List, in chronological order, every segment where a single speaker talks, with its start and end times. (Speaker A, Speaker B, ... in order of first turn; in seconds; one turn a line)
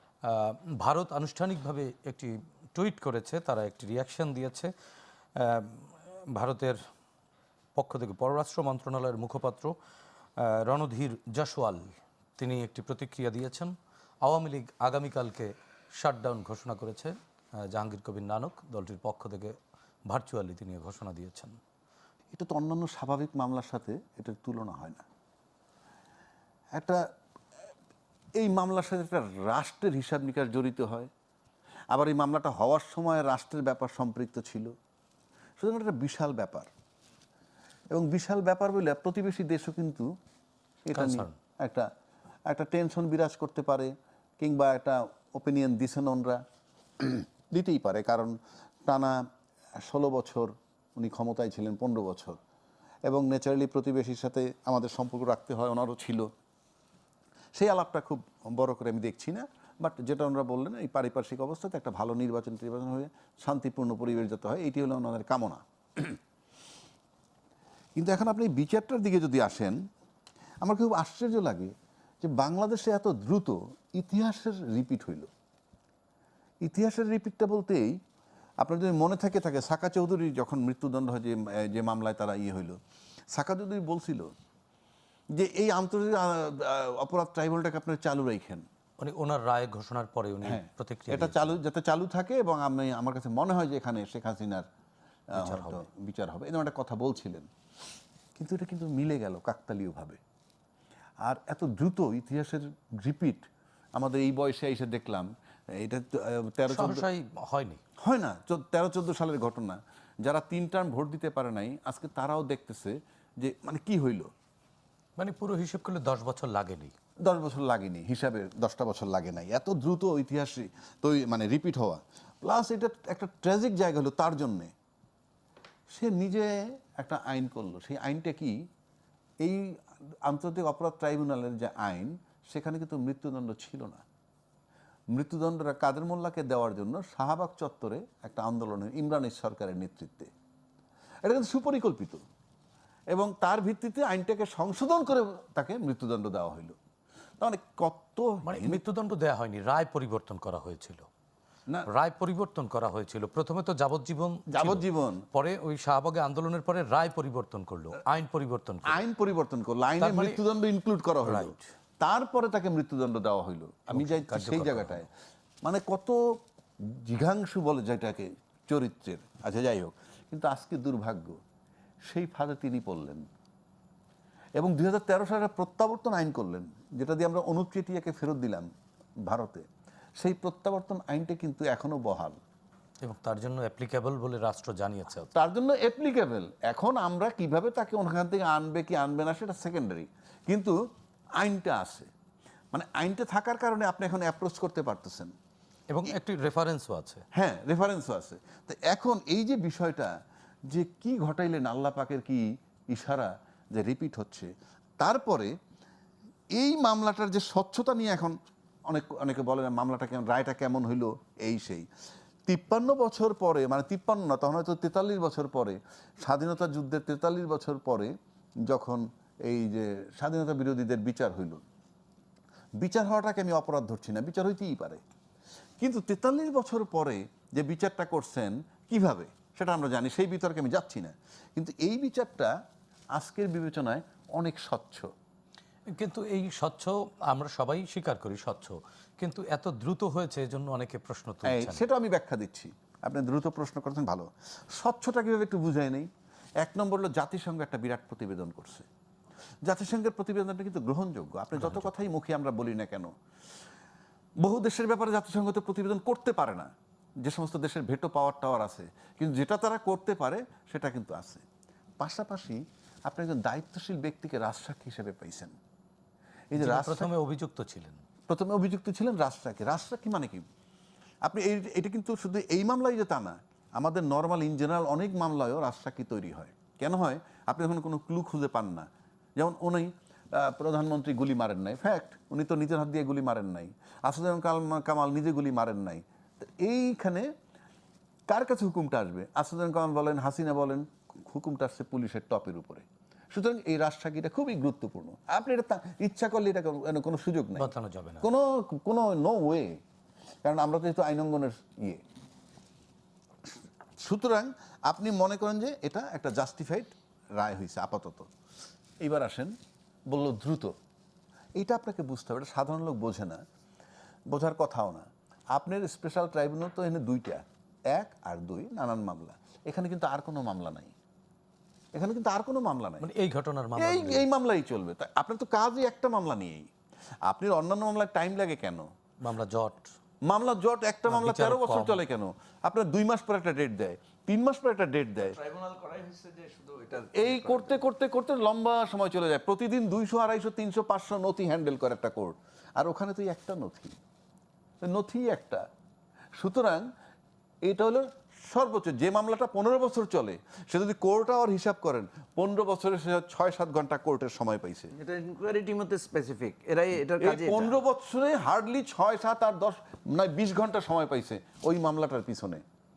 Speaker A: 0.2-4.7
Speaker A: 5.3-6.8
Speaker A: 7.7-9.7
Speaker A: 10.4-17.1
Speaker A: 17.7-19.6
Speaker A: 20.1-21.6
Speaker B: 22.3-25.0
Speaker B: 26.7-27.0
Speaker B: 28.4-31.1
Speaker B: 31.9-34.7
Speaker B: 35.6-36.7
Speaker B: 37.9-40.1
Speaker B: 40.8-41.9
Speaker A: 40.9-41.3
Speaker B: 42.5-46.4
Speaker B: 47.0-48.3
Speaker B: 48.9-49.2
Speaker B: 49.8-52.4
Speaker B: 53.0-56.3
Speaker B: 57.5-66.2
Speaker B: 68.0-69.8
Speaker B: 70.6-75.3
Speaker B: 76.6-77.9
Speaker B: 78.6-82.8
Speaker B: 83.3-84.3
Speaker B: 85.3-88.6
Speaker A: 89.0-91.6
Speaker B: 90.4-94.6
Speaker B: 95.3-97.5
Speaker A: 95.3-95.9
Speaker B: 98.3-100.2
Speaker B: 101.2-107.0
Speaker A: 106.7-107.8
Speaker B: 108.0-114.3
Speaker A: 115.2-116.9
Speaker B: 117.2-124.7
Speaker B: 125.9-128.6
Speaker B: 129.4-134.0
Speaker B: 135.1-140.3
Speaker B: 141.2-142.2
Speaker B: 143.1-146.8
Speaker B: 147.4-148.8
Speaker A: 148.4-151.1
Speaker A: 151.9-159.0
Speaker B: 154.5-155.2
Speaker B: 158.8-165.1
Speaker A: 160.0-160.4
Speaker A: 161.2-161.7
Speaker A: 163.9-165.0
Speaker B: 165.6-166.2
Speaker B: 166.8-171.4
Speaker B: 172.1-173.2
Speaker B: 174.6-178.7
Speaker B: 179.2-179.7
Speaker B: 180.2-182.4
Speaker A: 183.0-185.5
Speaker B: 185.3-190.8
Speaker B: 191.4-192.1
Speaker B: 192.7-195.3
Speaker A: 195.9-197.2
Speaker B: 197.3-200.1
Speaker B: 200.7-204.5
Speaker B: 205.0-205.5
Speaker B: 206.5-208.3
Speaker B: 208.9-211.8
Speaker B: 212.4-218.1
Speaker B: 218.7-221.6
Speaker B: 222.8-225.0
Speaker B: 225.8-232.5
Speaker B: 233.1-235.1
Speaker A: 235.9-241.8
Speaker B: 241.4-246.1
Speaker B: 246.6-248.9
Speaker B: 249.6-253.1
Speaker A: 251.5-252.0
Speaker B: 254.4-256.7
Speaker B: 257.2-261.4
Speaker B: 262.0-265.5
Speaker B: 266.5-267.1
Speaker A: 266.6-268.0
Speaker B: 268.3-270.4
Speaker B: 271.2-287.3
Speaker B: 288.3-297.7
Speaker A: 297.6-298.3
Speaker B: 298.2-299.8
Speaker B: 300.4-302.0
Speaker B: 303.4-308.3
Speaker B: 309.0-309.5
Speaker B: 310.1-310.7
Speaker B: 311.6-313.4
Speaker B: 314.3-320.9
Speaker B: 321.9-323.1
Speaker A: 323.0-324.2
Speaker B: 323.8-326.7
Speaker B: 327.2-328.9
Speaker A: 329.2-329.9
Speaker B: 330.2-335.4
Speaker A: 331.1-332.0
Speaker C: 335.3-337.8
Speaker B: 337.1-343.9
Speaker B: 344.8-345.6
Speaker B: 346.4-346.8
Speaker B: 347.6-354.9
Speaker C: 354.9-357.8
Speaker B: 357.2-362.6